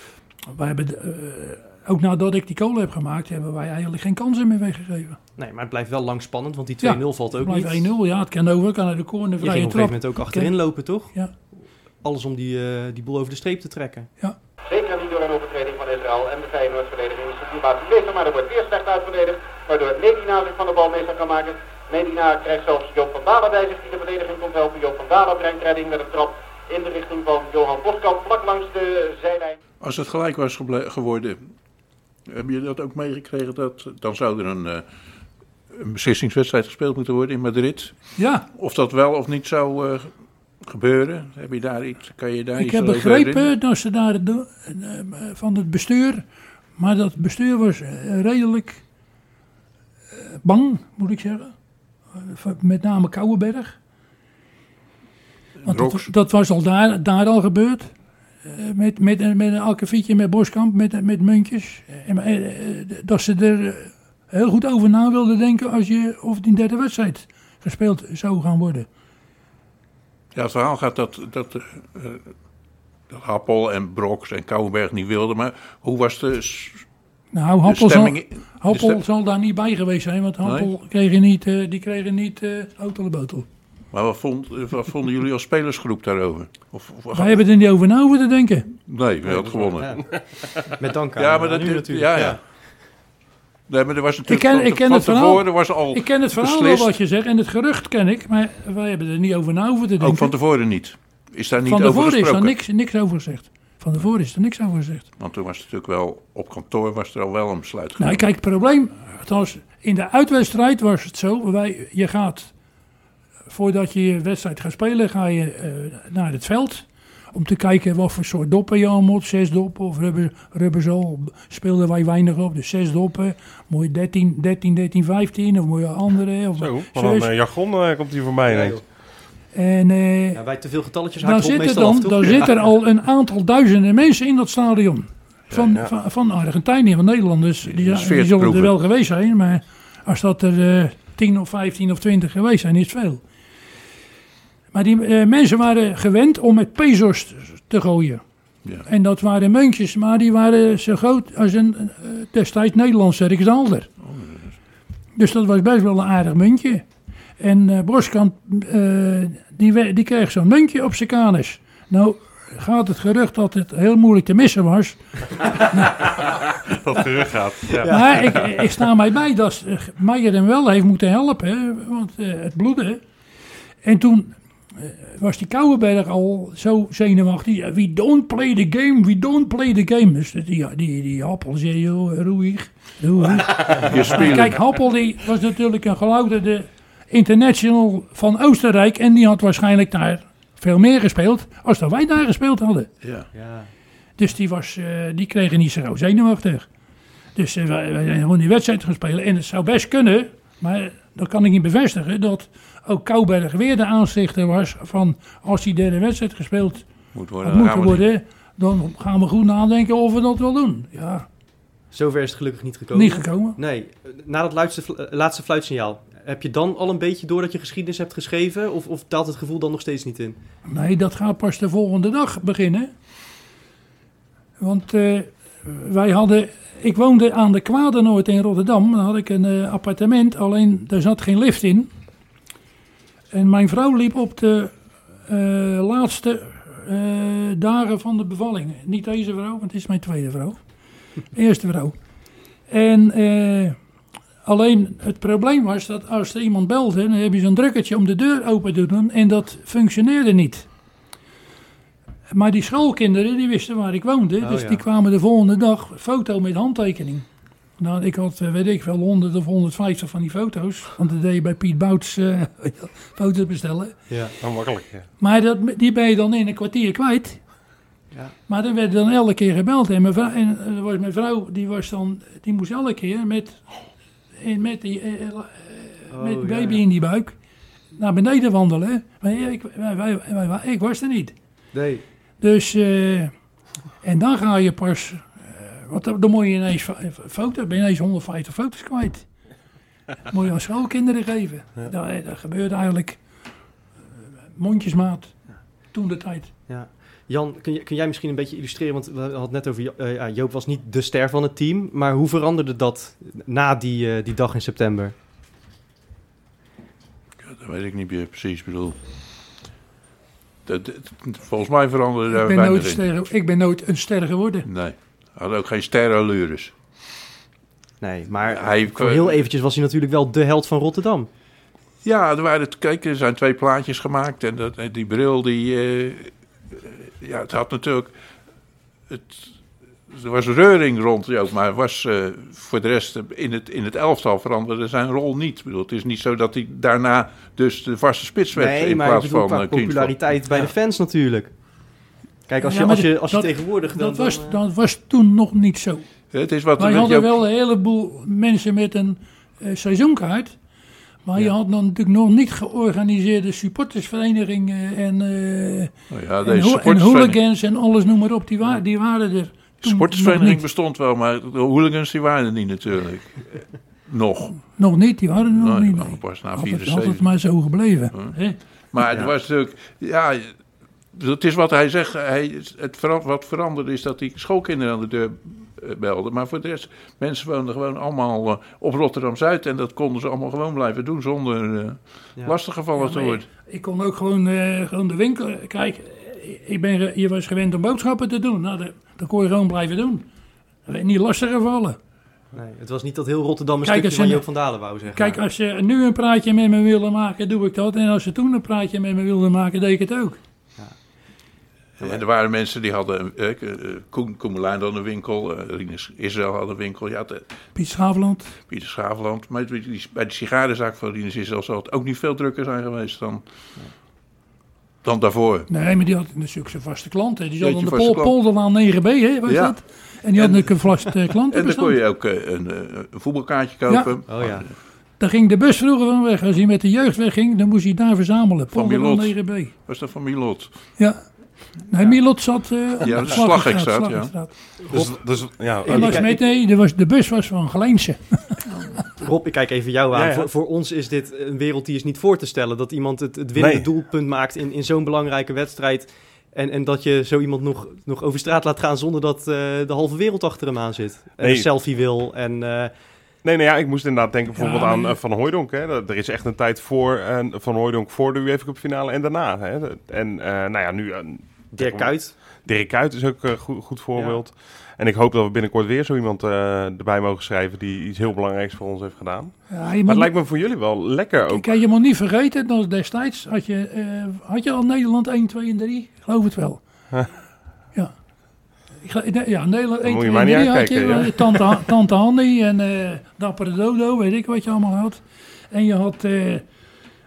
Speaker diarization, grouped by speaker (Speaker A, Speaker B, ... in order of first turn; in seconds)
Speaker A: 0.5-5.2, 6.8-10.6, 11.1-11.3, 38.2-38.5, 42.6-46.2, 46.8-48.8, 50.1-51.5, 52.1-53.8, 55.6-57.9, 58.4-68.9, 77.3-83.5, 87.1-88.7, 94.3-100.3, 101.7-105.1, 108.0-112.5, 113.5-127.3, 129.5-130.4, 131.2-143.2, 144.7-148.2, 148.9-153.9, 155.2-156.8, 157.4-166.1, 167.9-173.0, 173.8-192.9, 194.2-196.7, 197.4-206.9, 207.4-211.3, 212.9-213.6, 220.7-222.9, 224.6-231.9, 233.3-240.6, 241.3-241.9, 242.7-243.8, 244.4-250.7, 252.3-257.3, 257.8-264.0, 265.2-267.4, 268.5-273.7, 274.4-277.3, 277.9-281.3, 282.4-283.3, 284.0-289.3, 290.3-293.2, 294.6-295.4, 295.9-296.5, 312.3-314.6, 342.6-346.1, 346.8-350.6, 351.2-355.9, 356.4-360.6, 364.8-368.6, 382.9-390.3, 390.9-392.0, 393.8-394.4, 395.1-400.4, 407.7-408.6, 415.7-422.0, 423.9-424.1, 425.2-429.7, 431.0-434.6, 435.8-438.6, 454.5-455.2, 469.7-470.3, 471.5-476.8, 479.0-486.6
Speaker B: 5.4-7.9, 9.4-14.1, 89.2-92.4, 128.5-128.8, 130.3-132.5, 183.8-184.0, 193.3-193.7, 211.9-220.4, 254.4-254.8, 264.1-264.3, 276.1-276.8, 281.7-282.0, 296.7-305.1, 318.0-321.3, 338.5-341.5, 342.5-344.6, 369.1-369.3, 392.5-395.4, 424.3-424.7, 434.8-436.4, 439.2-452.9, 461.7-462.3
Speaker C: 14.7-29.6
Speaker D: 29.8-31.4, 32.3-34.8, 35.7-40.1, 40.6-43.5, 55.6-56.1, 70.3-72.3, 73.1-76.8, 77.6-79.0, 83.9-87.4, 88.9-89.9, 91.2-92.4, 93.7-96.9, 100.0-102.5, 105.2-108.2, 135.5-135.8, 137.6-138.7, 154.0-154.5, 183.7-184.6, 193.0-193.3, 207.1-208.0, 307.4-309.0, 310.6-313.1, 314.6-316.7, 318.5-319.5, 322.0-328.1, 329.1-329.6, 330.1-340.6, 346.3-347.4, 356.1-357.4, 359.8-364.7, 365.5-367.3, 368.9-370.6, 371.1-383.4, 402.0-407.5, 408.7-413.4, 415.0-415.7, 417.6-418.3, 419.5-424.7, 428.7-430.9, 433.0-434.6, 438.7-438.9
Speaker E: 126.6-128.9, 135.6-135.9, 166.0-168.7, 264.4-265.1, 434.9-436.2, 440.1-440.5, 443.5-443.9, 451.4-451.7, 453.4-471.7, 480.0-481.8